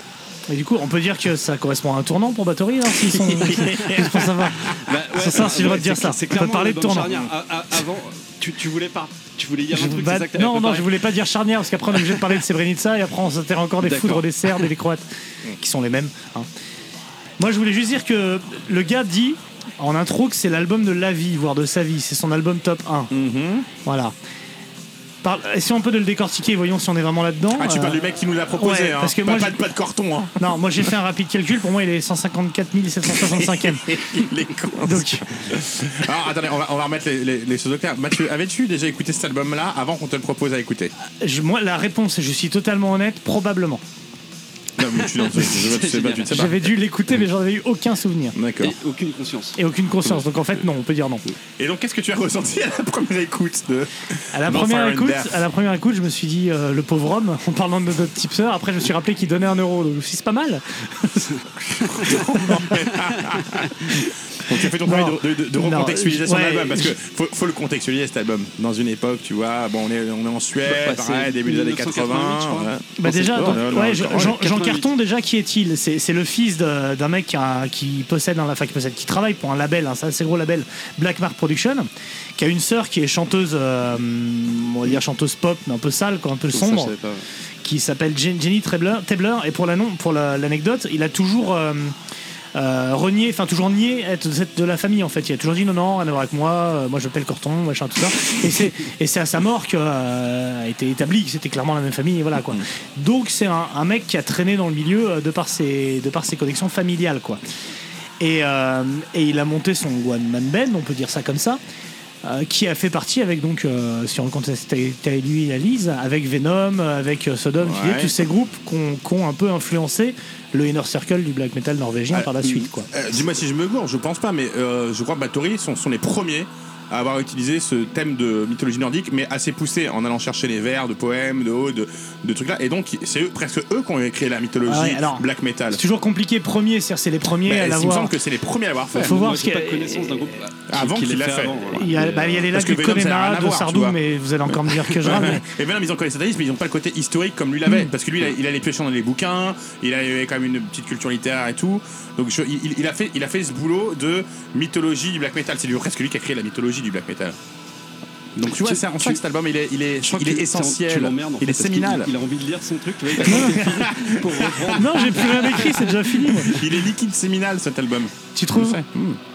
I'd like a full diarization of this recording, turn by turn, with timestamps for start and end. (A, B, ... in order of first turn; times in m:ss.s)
0:00.5-0:07.1 A
0:03.0-0:04.7 B
0:03.6-0:10.9 C
0:09.7-0:15.0 A
0:13.8-0:14.7 C
0:15.6-0:16.5 A
0:17.4-0:23.1 A
0:23.1-0:23.7 B
0:23.8-0:24.1 A
0:25.2-0:28.0 A
0:27.5-0:30.5 B
0:28.5-0:29.6 A
0:30.4-0:34.3 A
0:33.1-0:40.9 B
0:34.8-0:35.2 A
0:41.2-0:43.8 A
0:44.8-0:46.6 B
0:45.3-0:46.6 C
0:46.3-0:48.4 A
0:48.4-0:48.8 B
0:48.6-0:49.6 C
0:49.6-0:51.2 A
0:51.6-0:55.4 B
0:54.3-1:01.4 A
1:01.7-1:14.4 B
1:02.9-1:03.6 C
1:04.8-1:07.0 A
1:10.7-1:14.9 C
1:13.0-1:26.9 A
1:26.5-1:27.2 C
1:27.6-1:32.0 A
1:32.6-1:47.4 A
1:48.2-1:51.6 A
1:52.2-2:02.9 A
1:57.6-1:58.1 B
2:02.1-2:15.8 B
2:14.7-2:18.1 A
2:17.4-2:19.2 B
2:19.0-2:22.0 C
2:19.0-2:20.2 A
2:20.7-2:24.0 B
2:21.7-2:25.5 A
2:24.5-2:37.4 B
2:38.4-2:42.1 B
2:38.5-2:39.2 C
2:40.0-2:46.4 C
2:43.2-2:44.8 B
2:43.2-2:43.9 A
2:44.7-2:46.6 A
2:46.4-2:49.2 B
2:48.4-2:48.8 A